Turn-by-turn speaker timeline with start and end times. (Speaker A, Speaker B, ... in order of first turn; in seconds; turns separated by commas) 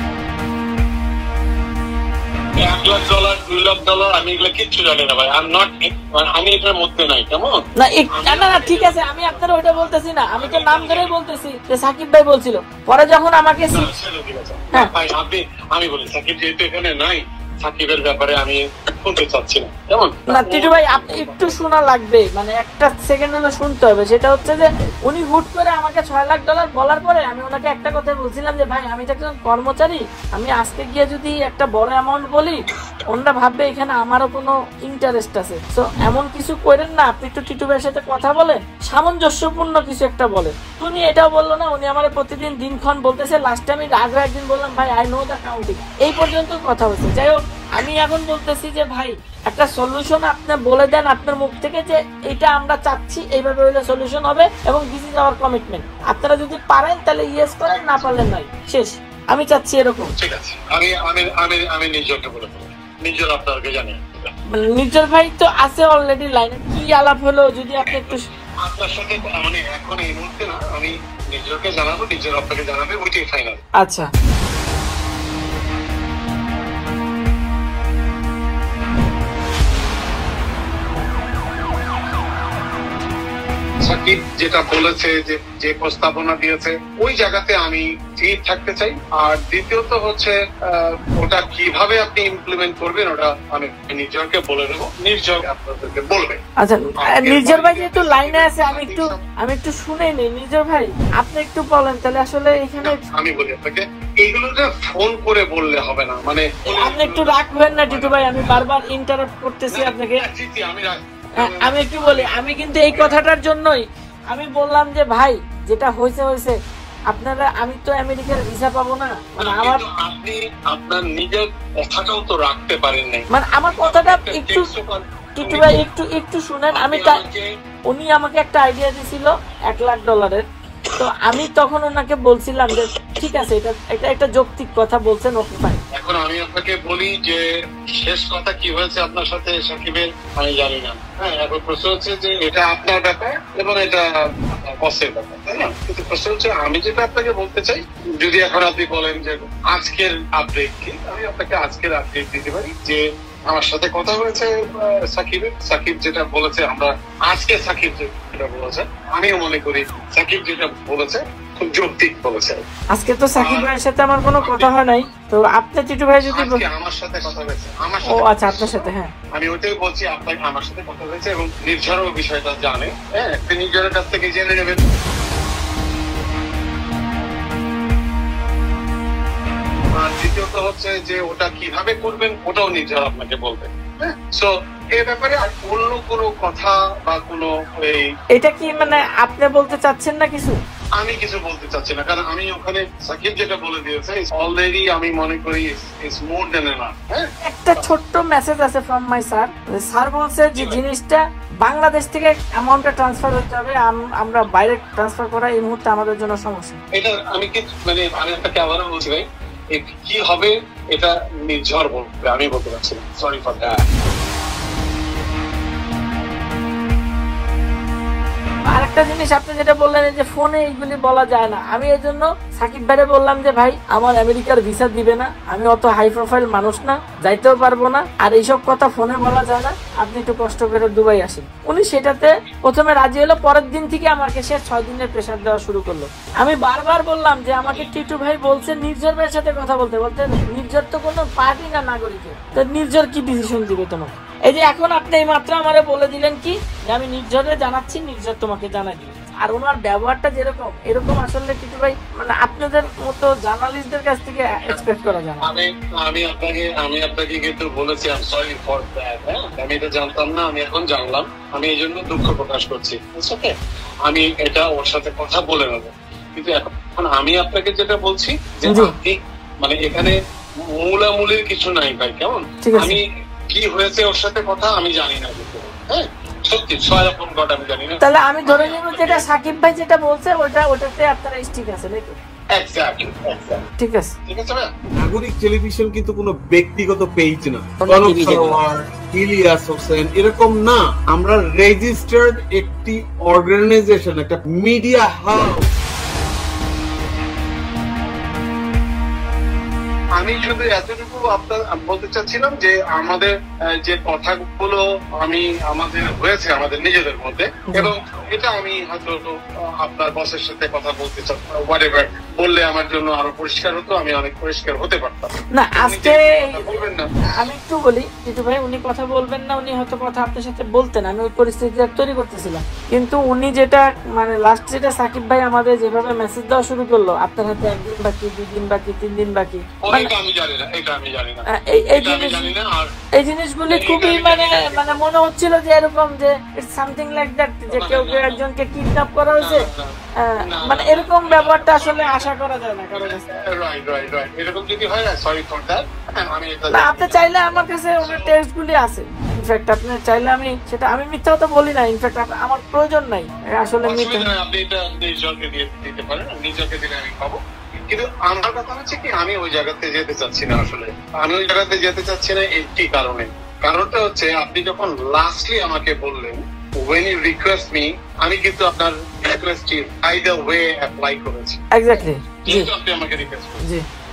Speaker A: 2.6-7.6, Speaker B: 7.8-13.9, Speaker A: 8.2-11.1, Speaker A: 13.7-21.6, Speaker B: 20.3-60.1, Speaker A: 57.7-58.1, Speaker A: 60.2-64.0, Speaker B: 64.6-68.2, Speaker A: 67.8-68.1, Speaker A: 68.7-73.6, Speaker B: 73.8-74.1, Speaker A: 83.9-96.4, Speaker B: 96.6-103.0, Speaker A: 97.0-99.2, Speaker A: 102.8-108.7, Speaker B: 106.7-110.2, Speaker A: 109.7-113.2, Speaker B: 111.4-116.5, Speaker B: 117.1-119.8, Speaker A: 119.4-125.7, Speaker B: 123.3-124.7, Speaker B: 125.4-127.2, Speaker A: 126.7-127.5, Speaker B: 127.9-130.5, Speaker B: 131.0-135.8, Speaker A: 135.9-137.4, Speaker A: 137.9-162.6, Speaker B: 162.9-166.6, Speaker A: 163.4-163.7, Speaker A: 164.4-164.7, Speaker A: 166.3-174.8, Speaker B: 168.1-169.1, Speaker A: 180.0-188.1, Speaker B: 188.3-190.6, Speaker A: 191.0-197.9, Speaker B: 197.4-206.8, Speaker A: 206.9-213.9, Speaker B: 218.7-255.4, Speaker A: 237.6-237.9, Speaker A: 255.4-263.6, Speaker A: 264.1-270.1, Speaker B: 268.7-268.9, Speaker A: 270.8-273.0, Speaker B: 272.6-273.0, Speaker A: 273.5-279.2, Speaker B: 278.0-282.2, Speaker A: 282.6-283.6, Speaker B: 283.8-284.1, Speaker A: 284.3-284.7, Speaker C: 285.0-295.7, Speaker B: 287.8-288.6, Speaker A: 300.2-303.3, Speaker A: 303.8-317.1, Speaker B: 315.5-316.7, Speaker B: 317.4-330.1, Speaker A: 329.8-332.9, Speaker B: 331.5-332.5, Speaker B: 333.2-339.7, Speaker A: 333.7-334.9, Speaker A: 337.7-338.4, Speaker A: 339.4-342.3, Speaker B: 340.2-343.2, Speaker A: 342.9-348.3, Speaker B: 346.7-354.3, Speaker A: 353.9-357.4, Speaker A: 357.9-371.6, Speaker B: 371.8-372.7, Speaker A: 372.5-373.6